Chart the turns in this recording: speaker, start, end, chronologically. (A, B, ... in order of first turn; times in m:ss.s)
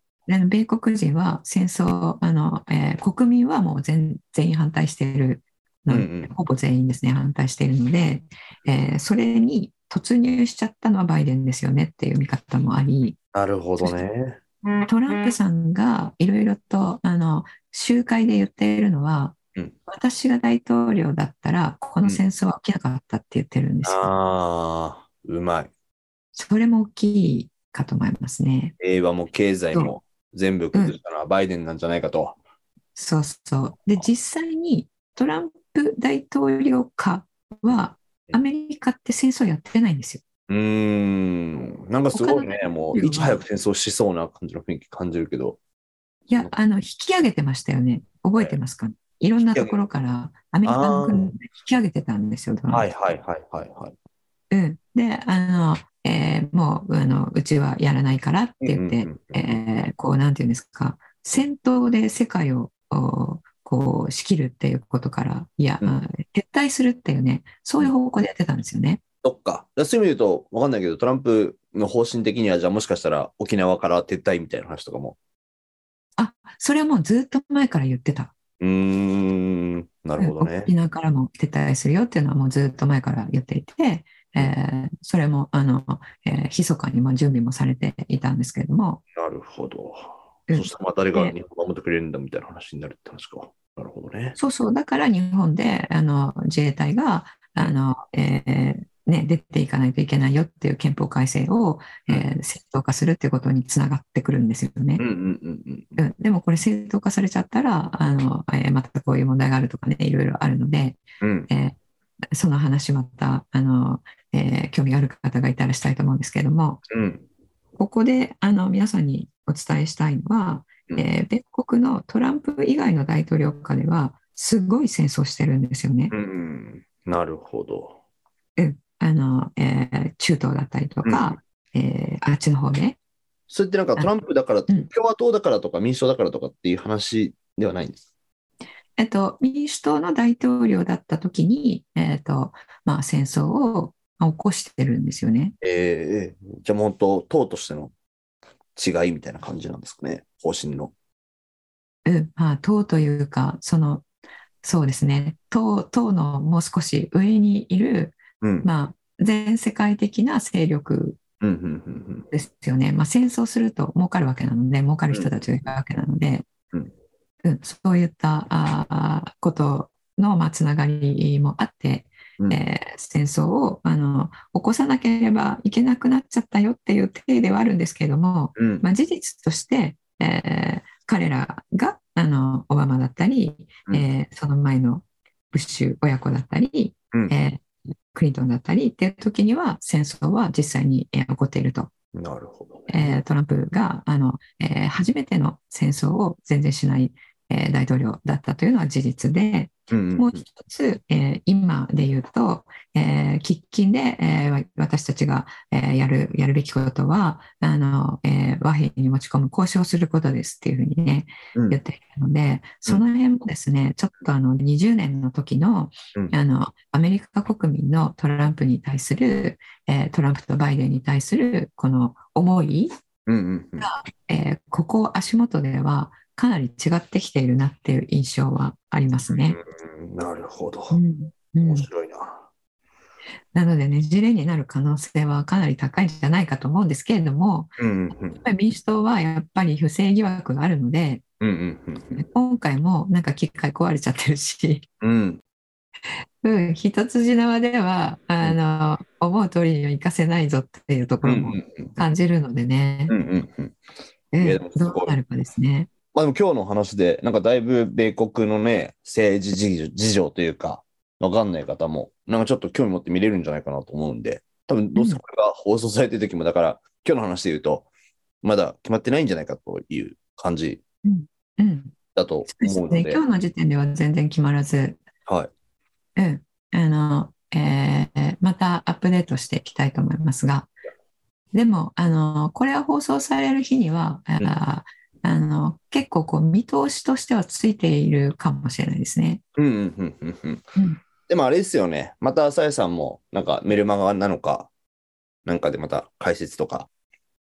0:00.3-0:13.2 A
0:05.9-0:06.3 B
0:13.3-0:14.4 B
0:14.8-0:24.1 A
0:23.8-0:25.7 B
0:26.3-0:28.7 A
0:28.8-0:32.4 B
0:33.0-0:40.2 A
0:40.5-0:45.6 B
0:42.1-0:43.4 A
0:46.3-0:52.9 A
0:50.6-0:51.3 B
0:52.7-0:53.9 B
0:54.5-1:09.0 A
0:58.6-0:59.5 B
1:09.2-1:15.2 B
1:16.2-1:18.3 A
1:18.6-1:20.7 B
1:20.2-1:29.0 A
1:29.1-1:34.4 B
1:30.5-1:31.3 A
1:34.4-1:45.0 A
1:45.0-1:46.0 B
1:46.0-1:51.8 A
1:51.2-1:51.5 B
1:52.3-1:56.8 A
1:56.9-1:57.2 B
1:57.8-2:06.1 A
2:06.1-2:08.0 B
2:08.6-2:13.0 A
2:11.0-2:11.4 B
2:13.5-2:18.0 B
2:19.0-2:25.5 A
2:25.6-2:27.9 B
2:28.8-2:30.9 B
2:32.0-2:34.0 A
2:34.6-2:41.2 A
2:38.4-2:38.7 B
2:41.4-2:42.3 B
2:42.3-2:46.5 A
2:47.4-3:11.9 A
2:58.6-2:58.8 B
3:12.1-3:13.1 B
3:12.9-3:42.9 A
3:19.9-3:20.4 B
3:31.5-3:31.8 B
3:43.2-3:43.9 B
3:43.8-3:49.6 A
3:49.3-3:51.0 B
3:50.9-3:51.9 A
3:51.6-3:52.4 B
3:53.5-3:57.8 A
3:57.8-3:58.4 B
3:58.3-4:01.2 A
4:01.4-4:02.2 B
4:02.1-4:04.8 A
4:05.0-4:05.4 B
4:06.4-4:13.2 A
4:11.2-4:11.9 B
4:13.1-4:13.8 B
4:14.3-4:15.9 A
4:14.4-4:15.2 B
4:16.1-4:27.9 B
4:24.9-4:25.2 A
4:28.4-4:30.8 B
4:31.0-4:31.9 A
4:32.1-4:33.2 B
4:32.4-4:35.0 A
4:35.2-4:35.5 B
4:36.2-4:40.7 A
4:41.5-4:49.4 A
4:49.6-4:50.6 B
4:51.3-4:54.7 B
4:55.4-4:56.9 B